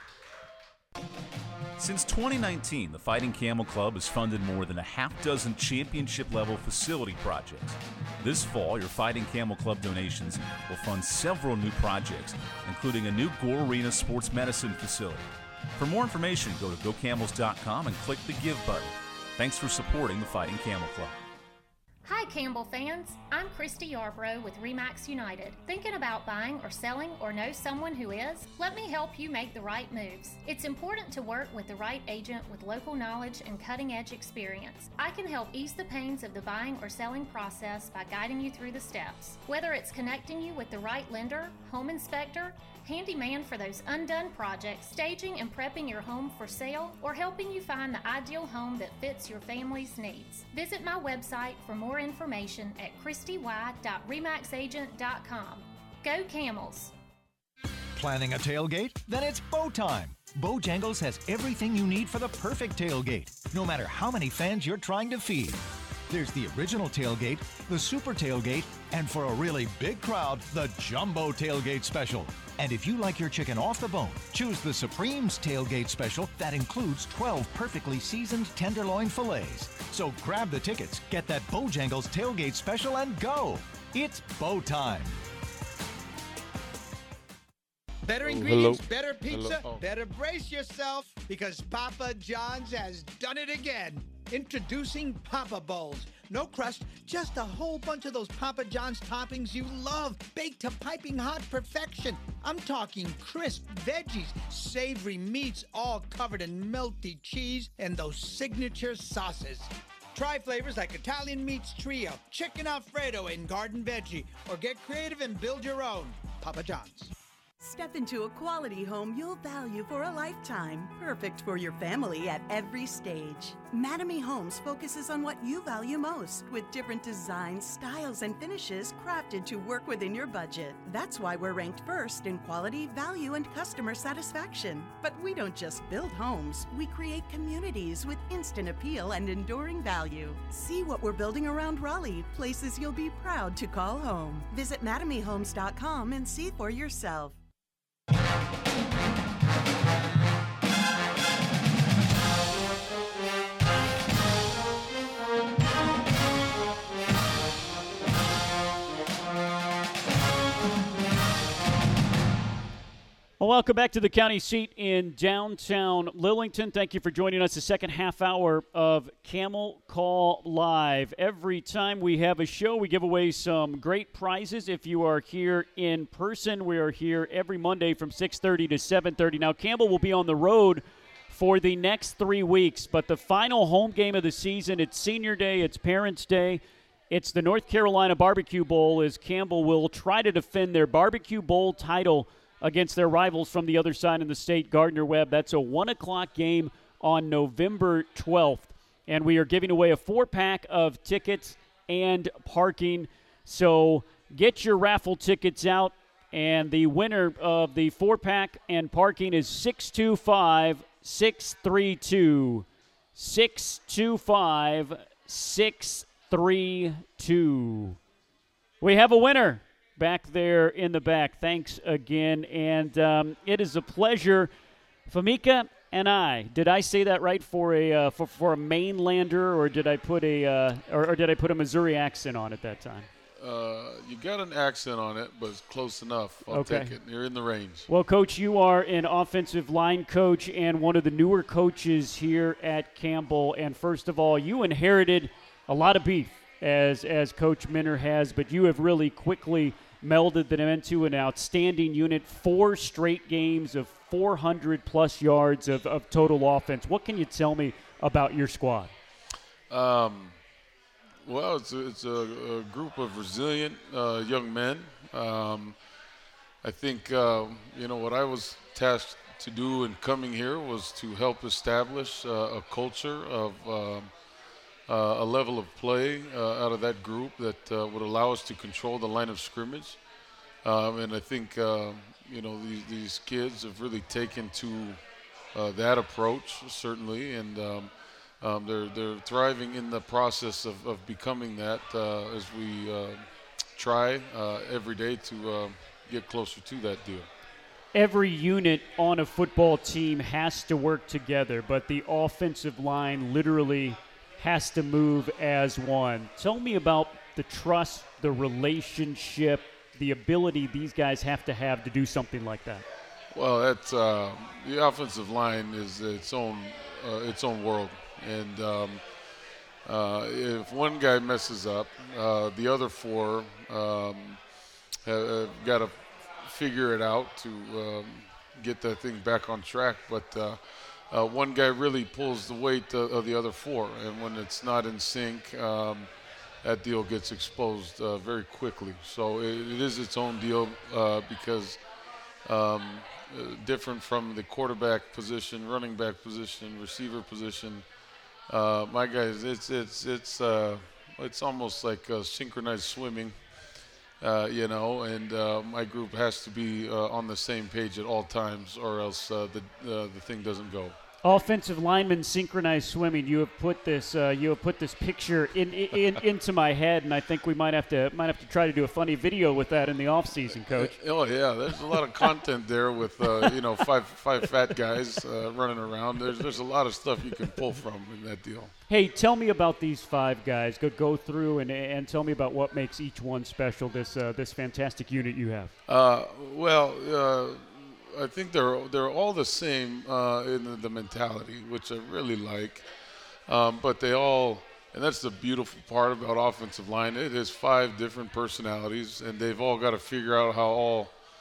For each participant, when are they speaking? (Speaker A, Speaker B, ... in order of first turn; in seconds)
Speaker A: 1.8-21.1
Speaker B: 22.0-56.9
Speaker C: 57.9-85.2
Speaker D: 88.0-117.1
Speaker E: 88.2-89.8, 233.4-237.9, 259.7-260.4, 261.2-265.8, 266.6-274.1, 274.9-280.0, 280.6-285.0, 285.5-297.3, 313.3-319.2, 319.8-324.4, 325.0-341.8, 342.4-347.9, 348.5-353.4, 354.2-361.0, 370.7-378.7, 385.9-392.9, 393.5-401.1
Speaker F: 117.6-147.4
Speaker G: 163.4-218.0, 218.8-224.5, 225.1-233.1, 236.5-237.0, 237.9-258.9, 297.9-312.9, 361.2-371.0, 378.9-385.7